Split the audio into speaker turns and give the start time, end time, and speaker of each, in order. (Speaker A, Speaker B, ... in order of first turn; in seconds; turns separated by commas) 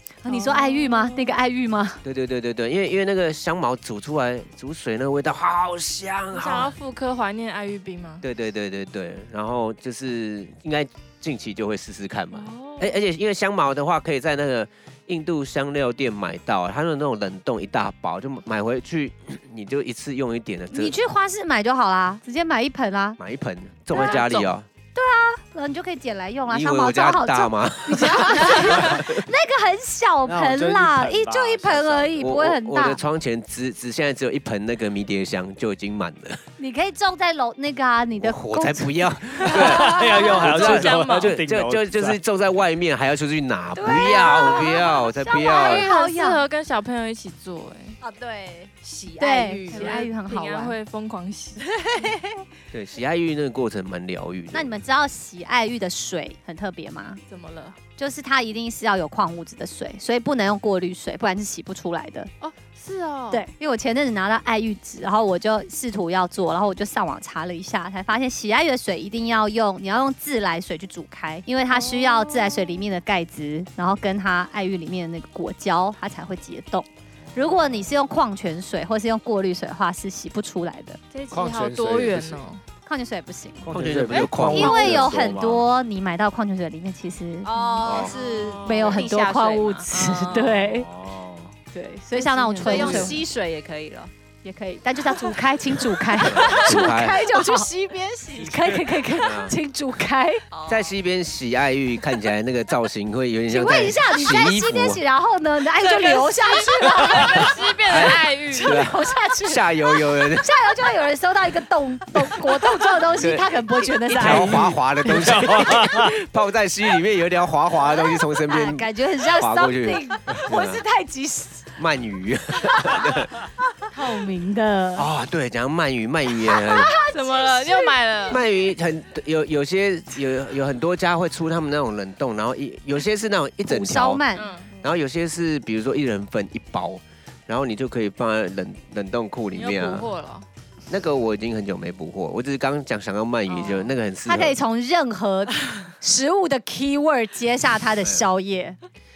Speaker A: 0.2-2.0, Speaker B: 0.2-1.4, Speaker C: 2.0-6.7, Speaker B: 6.3-8.2, Speaker C: 8.2-20.9, Speaker B: 12.3-13.0, Speaker A: 20.7-23.2, Speaker C: 23.2-24.6, Speaker B: 23.9-24.5, Speaker A: 23.9-24.2, Speaker A: 24.9-33.0, Speaker C: 26.5-29.2, Speaker D: 30.2-32.4, Speaker C: 32.2-36.4, Speaker A: 36.6-40.4, Speaker C: 38.1-45.9, Speaker D: 39.5-42.2, Speaker B: 39.9-41.3, Speaker A: 43.8-46.4, Speaker B: 44.3-44.6, Speaker B: 45.3-48.0, Speaker E: 48.0-50.1, Speaker A: 49.2-50.8, Speaker B: 49.7-51.6, Speaker E: 51.6-52.4, Speaker C: 52.7-54.7, Speaker A: 54.5-57.2, Speaker B: 57.3-57.8, Speaker A: 58.0-62.3, Speaker B: 62.4-63.5, Speaker A: 63.3-81.0, Speaker B: 71.7-72.9, Speaker D: 77.3-77.9, Speaker B: 81.1-82.6, Speaker D: 81.3-82.4, Speaker A: 82.8-83.7, Speaker D: 83.6-85.7, Speaker C: 83.7-85.1, Speaker A: 84.5-90.9, Speaker E: 87.4-89.9, Speaker C: 87.8-88.1, Speaker B: 87.9-89.0, Speaker B: 89.9-90.7, Speaker D: 90.5-91.5, Speaker A: 91.7-93.2, Speaker B: 92.1-93.2, Speaker E: 92.5-94.1, Speaker A: 94.4-97.7, Speaker C: 96.2-97.2, Speaker E: 96.5-98.7, Speaker A: 98.4-100.4, Speaker C: 99.2-99.6, Speaker E: 100.5-100.9, Speaker C: 100.7-105.0, Speaker A: 103.5-114.7, Speaker B: 105.7-108.8, Speaker C: 107.9-110.5, Speaker C: 113.2-120.8, Speaker D: 114.1-116.2, Speaker A: 117.9-121.7, Speaker C: 121.8-123.3, Speaker A: 122.8-123.0, Speaker A: 123.9-125.1, Speaker C: 125.0-126.9, Speaker A: 126.4-128.4, Speaker B: 127.1-128.4, Speaker C: 128.3-134.2, Speaker A: 133.6-134.6, Speaker B: 134.3-134.7, Speaker C: 134.8-140.1, Speaker B: 139.5-140.4, Speaker C: 140.9-144.6, Speaker B: 143.5-143.9, Speaker A: 144.2-148.8, Speaker C: 148.0-148.3